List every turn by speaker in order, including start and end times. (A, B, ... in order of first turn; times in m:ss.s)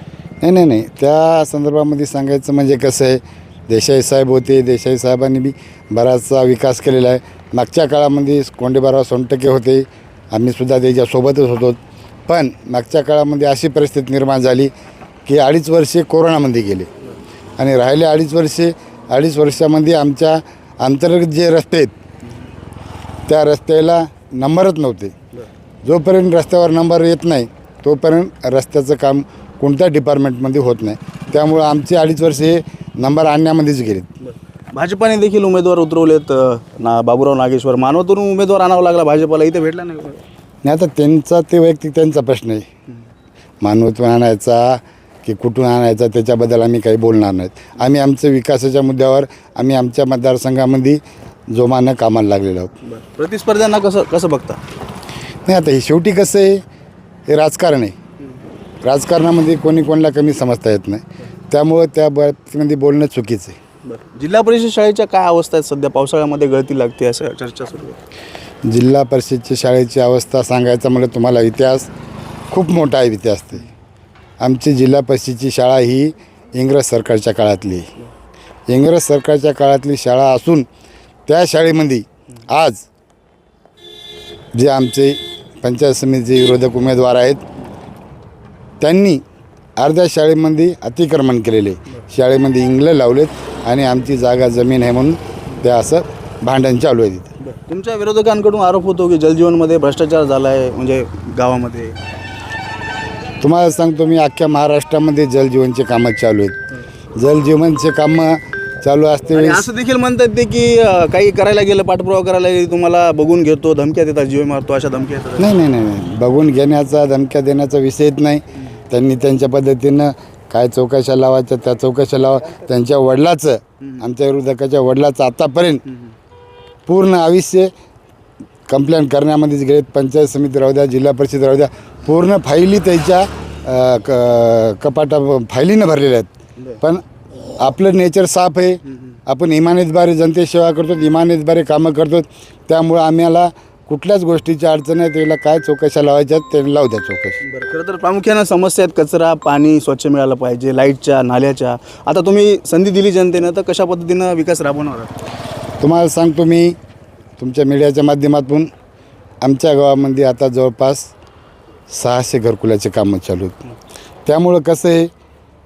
0:00.4-0:14.7 A
0:15.2-0:16.9 A
0:17.6-0:21.9 A
0:23.3-0:25.1 A
0:25.8-0:34.1 A
0:34.2-0:40.2 B
0:40.6-0:42.7 A
0:43.6-0:51.0 A
0:51.5-0:52.7 A
0:52.8-0:54.6 B
0:55.4-0:56.6 A
0:57.3-0:57.9 A
0:58.8-1:03.6 A
1:03.9-1:08.0 B
1:08.6-1:11.9 A
1:12.5-1:13.7 A
1:14.4-1:17.9 A
1:18.7-1:20.6 A
1:21.3-1:22.8 A
1:24.5-1:27.4 A
1:28.8-1:29.2 A
1:29.8-1:37.3 A
1:37.4-1:42.0 B
1:43.4-1:46.6 A
1:47.2-1:49.6 A
1:49.3-1:55.5 B
1:55.4-2:05.8 A
2:06.9-2:07.7 A
2:08.7-2:17.0 A
2:17.6-2:27.4 A
2:27.4-2:35.3 B
2:35.8-2:36.8 A
2:37.4-2:38.7 A
2:39.4-2:41.1 A
2:41.9-2:43.6 A
2:44.2-2:45.1 A